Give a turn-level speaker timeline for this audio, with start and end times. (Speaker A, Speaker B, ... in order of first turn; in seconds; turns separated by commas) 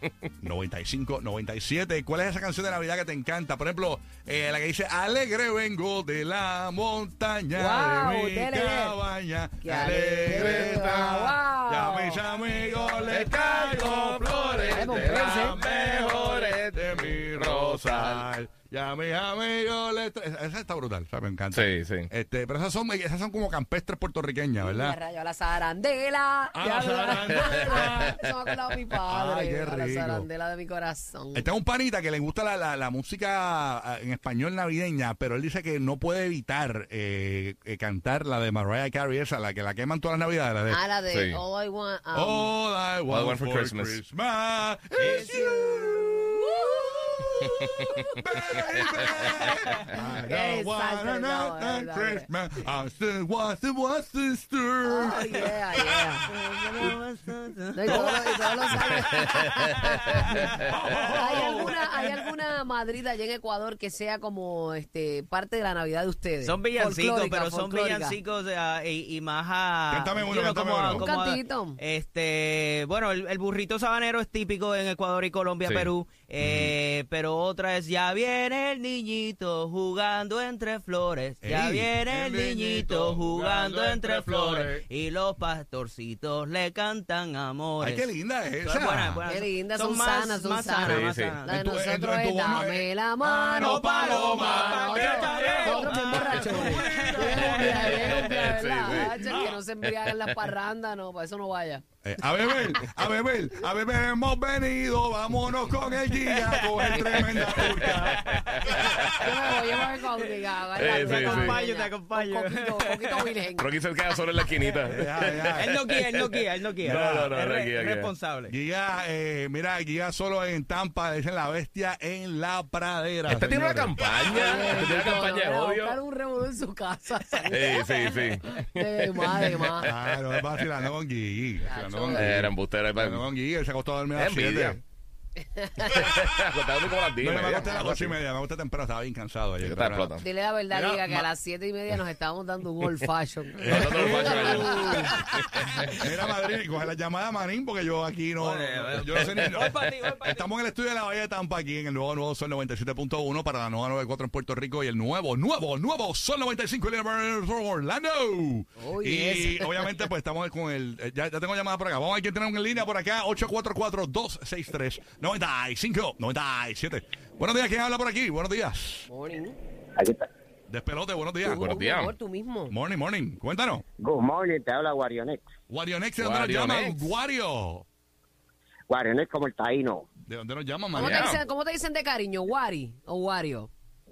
Speaker A: 0.4-25.0, Speaker B: 7.5-8.9, Speaker B: 9.6-12.2, Speaker C: 14.0-18.2, Speaker B: 14.7-15.6, Speaker C: 21.5-22.1, Speaker B: 24.6-31.5, Speaker A: 26.5-28.2, Speaker A: 29.0-30.3, Speaker A: 31.3-40.9, Speaker B: 40.7-42.5, Speaker C: 41.1-41.4, Speaker A: 42.1-56.1, Speaker C: 43.1-44.0, Speaker B: 45.0-46.6, Speaker B: 50.0-52.3, Speaker B: 54.8-56.2, Speaker D: 56.3-58.4, Speaker B: 57.8-60.4, Speaker A: 57.9-58.5, Speaker A: 59.5-62.2, Speaker B: 61.1-68.2, Speaker D: 66.4-88.0, Speaker A: 69.9-71.1, Speaker B: 70.9-71.8, Speaker C: 75.6-75.9, Speaker A: 76.4-76.7, Speaker A: 81.4-84.8, Speaker A: 87.8-89.2, Speaker D: 88.6-91.5, Speaker B: 89.3-101.8, Speaker C: 90.9-91.4, Speaker A: 91.5-98.3, Speaker D: 93.8-94.7, Speaker D: 95.2-97.1, Speaker C: 98.0-99.3, Speaker A: 98.9-99.5, Speaker A: 102.0-108.7, Speaker C: 106.5-108.2, Speaker C: 108.7-109.7, Speaker B: 108.8-113.7, Speaker C: 110.8-111.6, Speaker D: 110.8-113.3, Speaker C: 113.6-118.1, Speaker A: 114.9-115.8, Speaker D: 115.4-118.5, Speaker A: 116.8-117.3, Speaker A: 118.5-123.9, Speaker C: 123.3-126.0, Speaker B: 124.3-129.9, Speaker C: 127.5-129.7, Speaker A: 129.8-134.8, Speaker B: 131.6-132.4, Speaker C: 132.1-133.2, Speaker C: 134.1-134.8, Speaker B: 135.5-136.0, Speaker C: 136.0-138.2, Speaker A: 137.2-141.3, Speaker C: 139.6-140.2, Speaker B: 140.2-145.2, Speaker A: 143.6-145.2, Speaker C: 143.7-145.1, Speaker A: 145.8-169.1, Speaker D: 148.4-150.3, Speaker B: 158.8-160.0, Speaker B: 169.1-169.6, Speaker E: 170.0-170.3, Speaker A: 170.7-171.7, Speaker B: 171.5-172.7, Speaker C: 171.5-172.1, Speaker A: 172.7-173.8, Speaker E: 174.0-175.4, Speaker A: 175.7-177.8, Speaker C: 176.2-177.1, Speaker E: 178.9-180.1, Speaker A: 180.3-181.4, Speaker B: 180.9-183.7, Speaker C: 180.9-181.4